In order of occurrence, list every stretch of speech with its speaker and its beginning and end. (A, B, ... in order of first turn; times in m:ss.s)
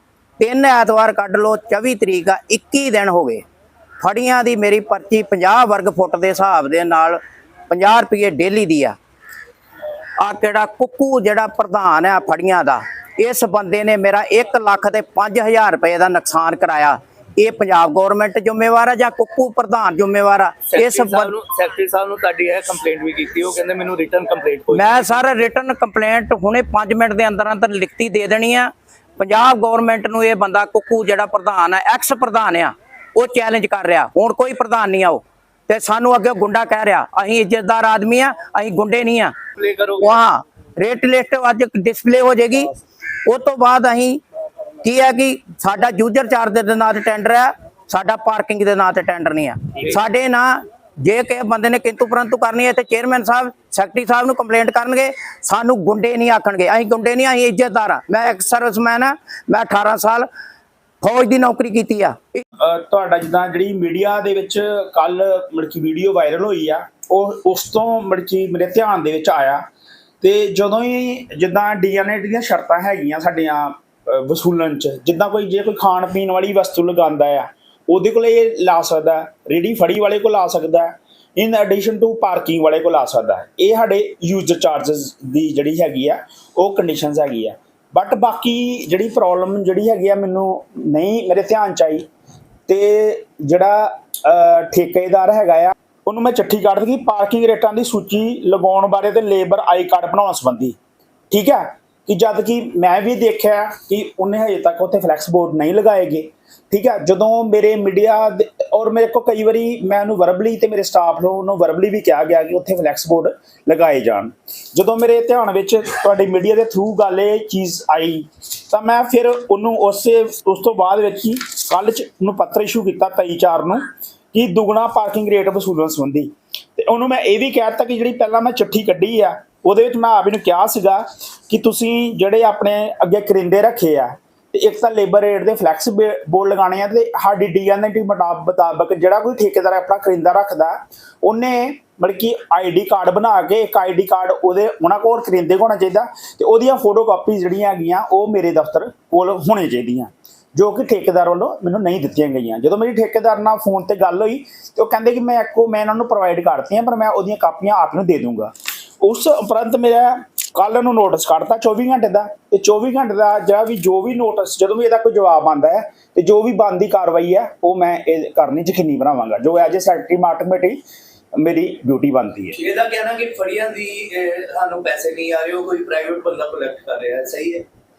0:00.4-0:03.4 A
0:04.0-0:07.2 A
0:07.7-0:09.0 A
0:10.2-0:21.3 A
0:20.7-0:25.2 B
0:24.7-0:39.3 A
0:39.6-0:40.2 B
0:40.0-0:42.7 A
0:43.2-0:44.2 A
0:44.8-1:00.3 A
1:01.0-1:02.4 A
1:02.6-1:09.6 C
1:10.2-1:32.0 C
1:32.7-1:40.8 C
1:41.3-2:50.8 C
2:51.4-2:52.6 C
2:52.5-2:57.6 B